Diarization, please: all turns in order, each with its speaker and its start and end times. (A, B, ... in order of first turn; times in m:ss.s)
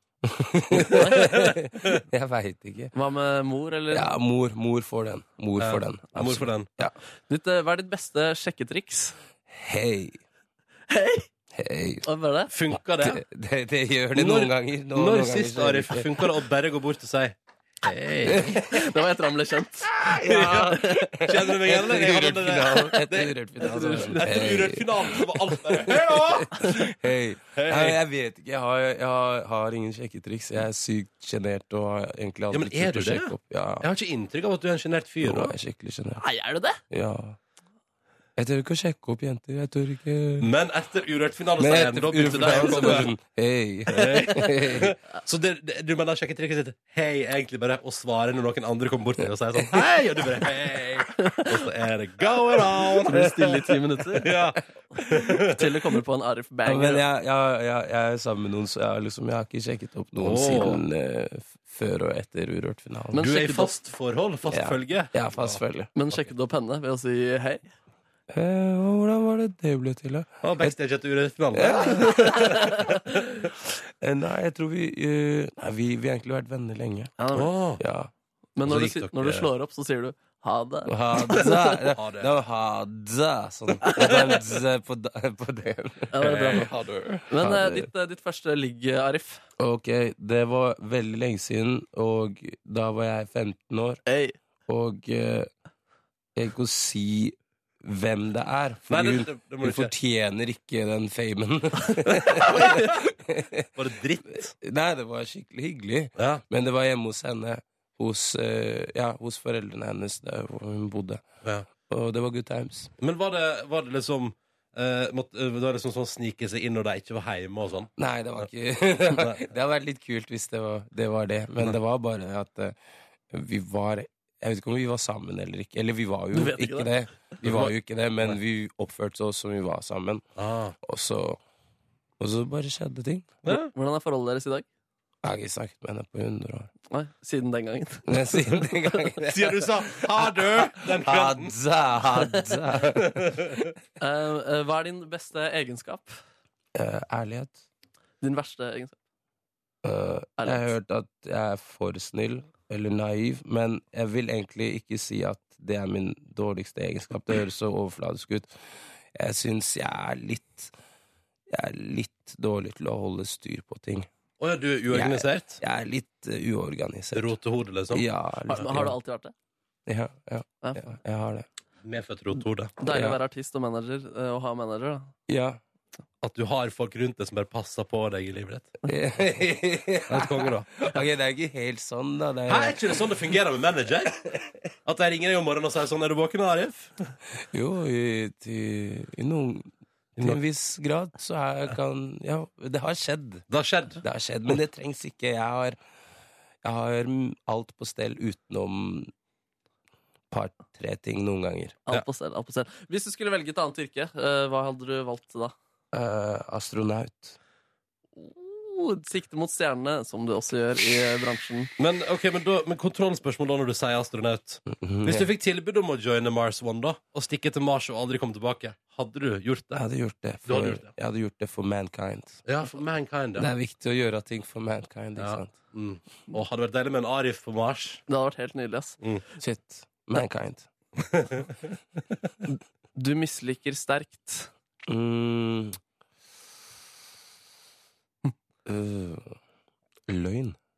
0:00.2-0:02.9 A
0:00.9-0:01.3 B
0:00.9-0:02.0 C
0:02.9-0:04.1 B
0:03.9-0:07.0 A
0:05.6-0:06.7 C
0:07.3-0:09.2 B
0:09.5-0:10.2 A
0:10.9-0:11.3 B
0:11.5-0:12.1 A
0:12.0-0:12.5 B
0:12.5-0:13.2 C
0:13.0-0:16.3 A
0:14.2-0:18.6 C
0:18.2-0:18.6 A
0:18.6-0:20.0 B
0:19.9-0:33.9 A
0:20.1-0:26.8 C
0:20.5-0:21.1 B
0:23.6-0:24.5 B
0:27.5-0:28.0 C
0:32.5-0:35.5 C
0:35.2-0:36.2 A
0:36.2-0:36.8 B
0:36.9-0:37.4 A
0:38.4-0:40.5 A
0:40.4-0:43.1 C
0:41.6-0:44.9 A
0:42.5-0:43.0 B
0:43.9-0:55.7 C
0:44.2-0:44.5 B
0:51.2-0:51.6 B
0:52.8-0:54.4 B
0:55.0-0:57.0 B
0:56.7-1:03.3 A
1:00.2-1:00.8 C
1:03.1-1:03.7 B
1:03.2-1:05.6 C
1:04.5-1:05.9 A
1:06.0-1:07.7 B
1:08.3-1:10.7 A
1:10.4-1:13.2 C
1:11.5-1:12.3 A
1:12.0-1:13.0 B
1:14.0-1:17.1 A
1:17.2-1:17.5 B
1:17.3-1:17.8 C
1:17.8-1:18.1 A
1:18.6-1:21.8 B
1:18.6-1:19.5 C
1:20.9-1:26.7 A
1:21.4-1:22.3 C
1:23.8-1:24.4 B
1:26.1-1:26.7 B
1:26.2-1:27.3 C
1:27.3-1:29.4 B
1:27.4-1:27.9 A
1:29.6-1:34.0 A
1:34.1-1:34.4 B
1:34.7-1:35.5 A
1:36.4-1:43.7 A
1:38.9-1:39.9 C
1:42.4-1:43.0 B
1:42.4-1:42.9 C
1:43.8-1:44.5 C
1:44.4-1:51.3 A
1:46.2-1:46.4 C
1:51.8-1:52.9 A
1:53.0-1:58.5 C
1:58.0-2:02.8 A
1:59.1-1:59.4 C
2:03.3-2:10.2 A
2:06.3-2:06.9 B
2:07.4-2:08.4 C
2:10.4-2:10.8 C
2:10.8-2:11.4 A
2:12.2-2:13.4 A
2:13.5-2:14.7 B
2:15.2-2:16.7 A
2:16.9-2:19.2 B
2:18.1-2:23.6 A
2:19.2-2:21.6 C
2:22.1-2:22.4 B
2:23.0-2:23.7 C
2:24.0-2:26.2 B
2:26.8-2:27.6 A
2:28.2-2:29.0 B
2:29.8-2:38.5 A
2:30.4-2:30.7 B
2:39.1-2:40.7 A
2:41.5-2:44.1 A
2:44.4-2:45.6 C
2:44.9-2:47.3 A
2:47.1-2:48.1 C
2:47.9-2:49.0 A
2:48.5-2:49.3 B
2:49.9-2:51.5 A
2:50.6-2:51.0 B
2:51.8-2:52.8 C
2:52.8-2:55.1 B
2:52.8-2:53.2 A
2:55.3-2:55.6 A
2:56.2-2:58.7 C
2:58.9-3:03.1 A
3:00.1-3:00.7 C
3:02.5-3:04.3 C
3:04.8-3:07.0 C
3:07.5-3:13.5 A
3:13.5-3:14.0 C
3:14.0-3:15.8 A
3:16.6-3:19.1 A
3:20.3-3:21.8 A
3:21.9-3:25.5 B
3:25.9-3:27.4 A
3:28.2-3:31.7 B
3:31.8-3:39.8 C
3:34.7-3:35.3 A
3:39.7-3:42.5 A
3:40.5-3:40.9 C
3:42.5-3:43.5 C
3:43.4-3:45.6 A
3:45.2-3:48.0 C
3:48.1-3:49.0 B
3:49.4-3:50.7 A
3:51.0-3:51.5 C
3:52.5-3:54.5 B
3:54.9-3:55.8 A
3:58.6-3:59.4 A
4:00.1-4:00.6 A